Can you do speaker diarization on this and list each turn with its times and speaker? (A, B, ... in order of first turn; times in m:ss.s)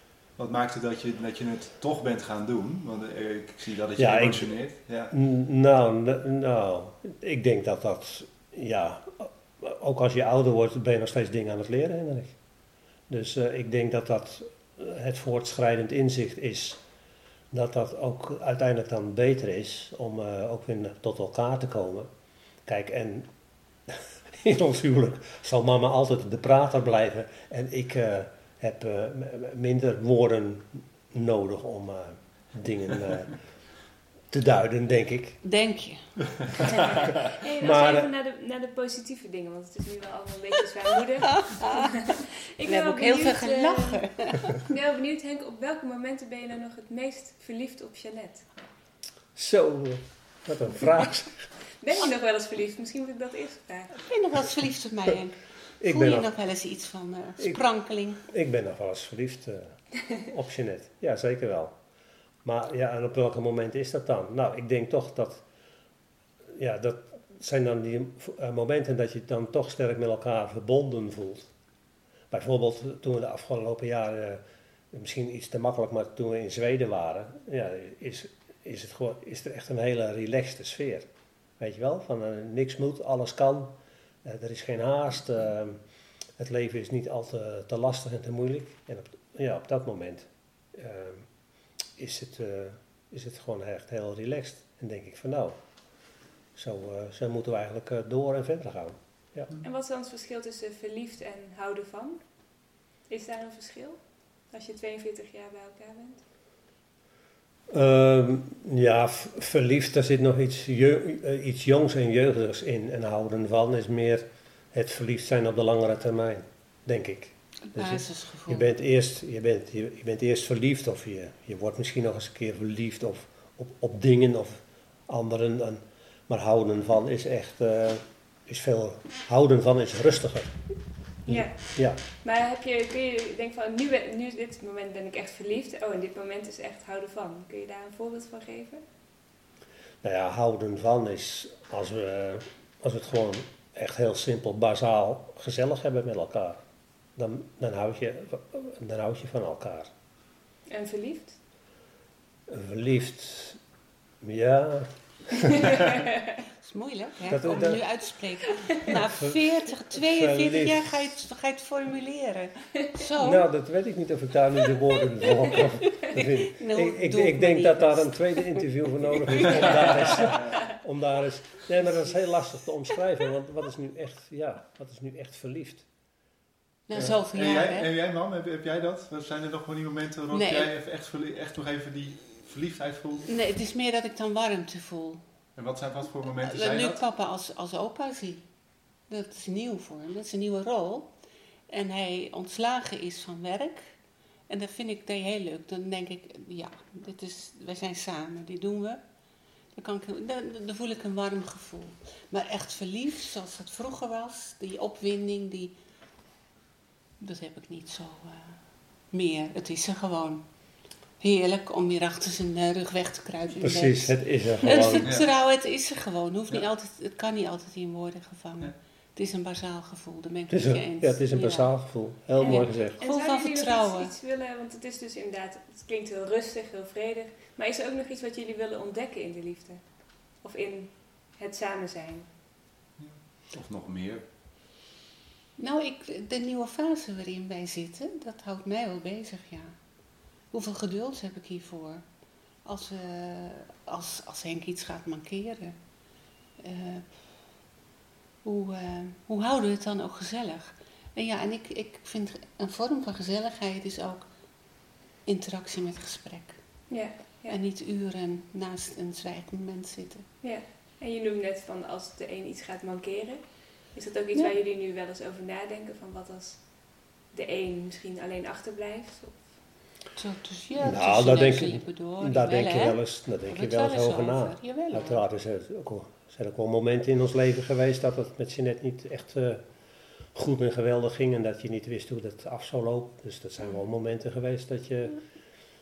0:00.4-0:05.1 A
0:04.0-0:04.6 B
0:05.1-0:12.4 B
0:13.1-0:16.8 B
0:17.5-0:22.1 B
0:22.6-0:23.3 B
0:23.9-0:33.4 B
0:34.3-0:35.4 B
0:35.4-0:36.0 C
0:36.7-0:44.0 D
0:37.6-0:38.1 B
0:41.2-0:42.0 C
0:42.6-0:44.7 C
0:44.6-0:48.4 D
0:49.4-0:51.5 B
0:51.8-0:54.0 D
0:53.9-0:58.2 C
0:55.8-0:56.3 B
0:58.2-1:01.7 B
1:02.4-1:05.4 B
1:06.5-1:11.5 B
1:12.3-1:21.1 B
1:21.6-1:25.8 B
1:26.4-1:31.2 B
1:32.0-1:35.6 B
1:36.5-1:39.5 B
1:39.6-1:42.2 D
1:43.1-1:44.0 D
1:44.5-1:46.2 D
1:47.7-2:10.6 B
1:57.7-1:58.7 C
2:11.2-2:12.0 B
2:11.3-2:11.6 D
2:12.2-2:18.8 D
2:20.0-2:26.6 B
2:27.2-2:29.9 B
2:30.7-2:31.4 D
2:32.5-2:33.6 B
2:34.2-2:35.8 B
2:35.7-2:36.2 D
2:36.6-2:43.5 C
2:37.3-2:37.8 B
2:38.9-2:39.4 B
2:40.0-2:41.0 B
2:43.2-2:55.8 B
2:45.2-2:50.4 C
2:56.9-2:57.9 C
2:56.9-3:03.3 A
3:00.3-3:00.7 C
3:03.3-3:05.2 C
3:05.5-3:07.0 A
3:06.2-3:08.4 C
3:09.1-3:11.1 C
3:11.7-3:13.9 C
3:14.5-3:19.0 C
3:19.8-3:25.7 C
3:27.2-3:28.6 C
3:29.1-3:30.4 C
3:31.2-3:41.8 C
3:33.6-3:35.1 B
3:35.0-3:35.3 A
3:40.5-3:43.0 B
3:42.4-3:49.8 D
3:42.4-3:44.1 C
3:50.4-3:52.3 D
3:53.0-3:54.2 A
3:55.6-3:59.7 C
4:00.5-4:02.0 C
4:02.6-4:05.8 C
4:06.6-4:07.1 C
4:08.4-4:14.2 C
4:15.2-4:16.6 C
4:16.9-4:17.6 D
4:17.5-4:20.2 C
4:20.4-4:26.7 D
4:27.3-4:29.4 D
4:30.1-4:35.2 C
4:30.8-4:39.6 B
4:40.3-4:45.2 B